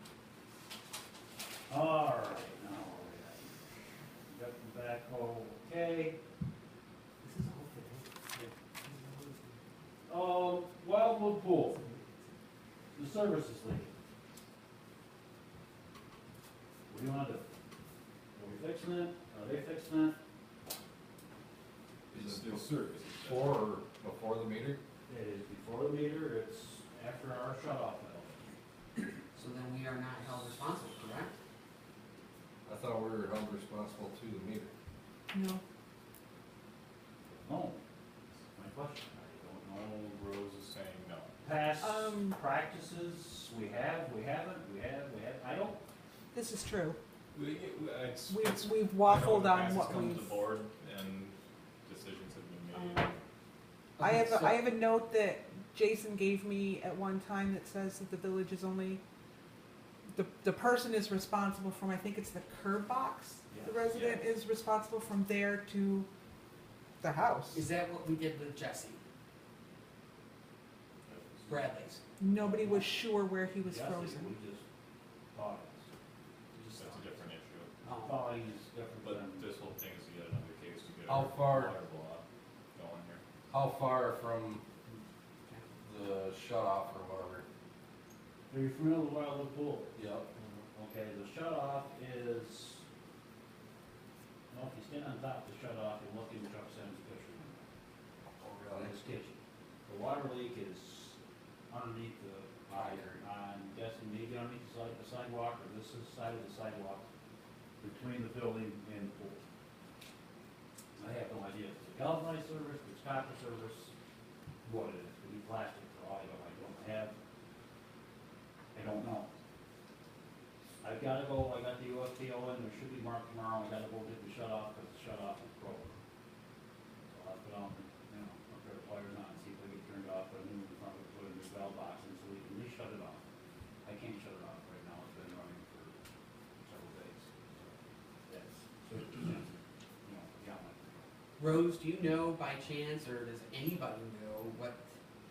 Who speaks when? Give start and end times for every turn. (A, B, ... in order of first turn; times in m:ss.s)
0:01.7-0:03.6 A
0:04.2-0:06.2 A
0:07.2-0:09.6 B
0:10.1-0:11.9 A
0:12.9-0:13.9 A
0:16.9-0:17.5 A
0:18.3-0:20.2 A
0:22.1-0:23.7 C
0:22.1-0:24.8 D
0:25.1-0:28.4 A
0:29.3-0:31.4 B
0:32.6-0:34.7 D
0:35.3-0:35.6 E
0:37.4-0:37.8 A
0:38.5-0:40.1 A
0:40.0-0:41.3 C
0:41.4-0:45.8 A
0:41.8-0:42.3 E
0:46.3-0:47.0 E
0:47.3-0:53.2 C
0:48.3-0:50.4 E
0:52.7-0:53.1 E
0:54.0-0:54.7 B
0:54.0-0:59.0 E
1:00.1-1:06.1 E
1:03.5-1:03.8 A
1:03.9-1:04.2 C
1:07.0-1:07.6 E
1:07.5-1:09.0 B
1:11.1-1:11.6 A
1:11.4-1:12.0 B
1:12.2-1:14.3 E
1:12.4-1:13.0 A
1:13.6-1:14.6 A
1:15.3-1:15.9 A
1:16.5-1:17.1 A
1:16.7-1:17.7 C
1:17.8-1:18.2 B
1:18.0-1:19.4 A
1:19.0-1:22.2 C
1:21.1-1:21.7 D
1:22.7-1:23.2 C
1:23.5-1:24.6 D
1:25.8-1:27.4 D
1:28.5-1:29.9 A
1:30.0-1:30.3 D
1:30.7-1:32.8 A
1:34.5-1:37.7 A
1:38.4-1:39.0 D
1:38.6-1:41.2 A
1:41.7-1:47.0 A
1:42.7-1:43.2 B
1:47.8-1:49.4 A
1:51.0-1:53.9 A
1:54.6-1:57.1 A
1:58.7-1:59.3 A
2:00.8-2:06.0 A
2:07.1-2:13.2 A
2:13.8-2:16.0 A
2:16.6-2:17.7 A
2:18.2-2:19.5 A
2:20.0-2:21.1 A
2:21.4-2:24.9 B